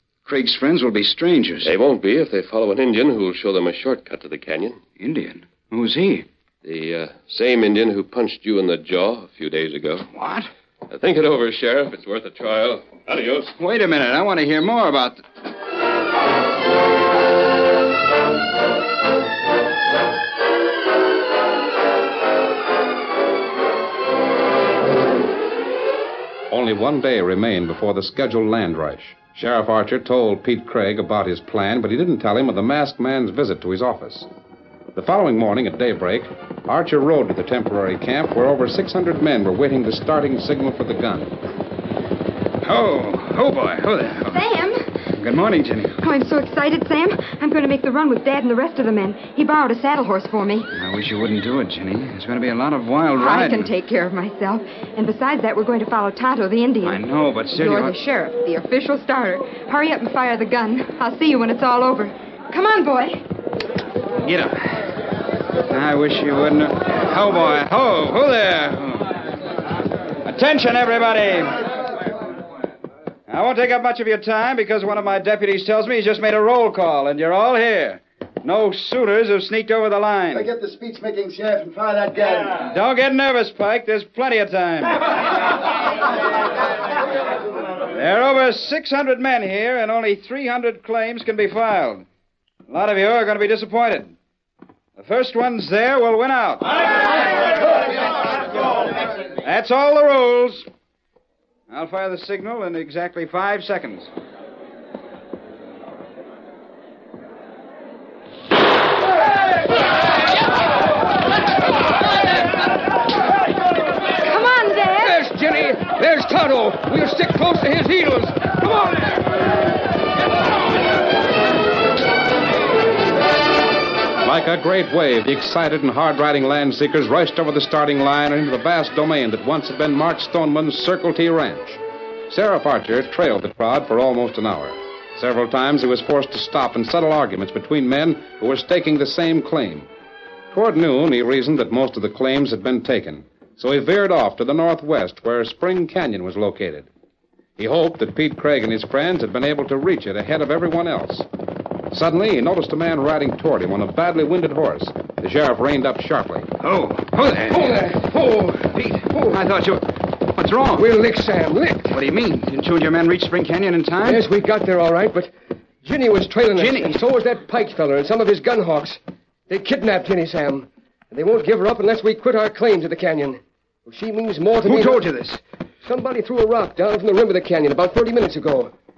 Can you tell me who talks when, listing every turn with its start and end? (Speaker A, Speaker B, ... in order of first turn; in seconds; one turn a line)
Speaker A: 0.2-1.7
Speaker B: 1.6-4.8
Speaker A: 5.0-6.3
Speaker B: 6.6-10.1
Speaker A: 10.1-10.5
Speaker B: 10.9-13.5
Speaker A: 13.6-15.2
Speaker C: 26.5-34.3
Speaker C: 34.9-41.3
Speaker A: 42.6-44.5
Speaker D: 44.3-44.8
Speaker A: 45.1-46.0
Speaker D: 46.0-50.7
Speaker A: 50.7-53.7
Speaker D: 53.1-57.0
Speaker A: 56.8-57.9
Speaker D: 57.5-63.2
Speaker A: 64.2-64.9
Speaker A: 65.7-69.2
Speaker A: 70.2-71.7
Speaker A: 73.3-80.5
Speaker E: 80.3-82.6
Speaker A: 82.6-85.1
Speaker A: 87.9-92.0
Speaker A: 92.7-94.2
Speaker A: 95.0-96.9
Speaker A: 99.4-100.7
Speaker A: 101.7-104.1
Speaker D: 114.2-115.1
Speaker F: 115.0-119.2
Speaker C: 124.2-139.9
Speaker C: 140.5-146.9
Speaker C: 147.6-151.3
Speaker C: 151.9-156.5
Speaker A: 156.6-158.0
Speaker F: 157.5-159.4
Speaker A: 158.7-160.9
Speaker F: 160.7-162.0
Speaker A: 161.9-164.2
Speaker F: 164.0-165.3
Speaker F: 165.8-175.1
Speaker A: 166.5-167.0
Speaker A: 174.6-175.4
Speaker F: 175.8-178.7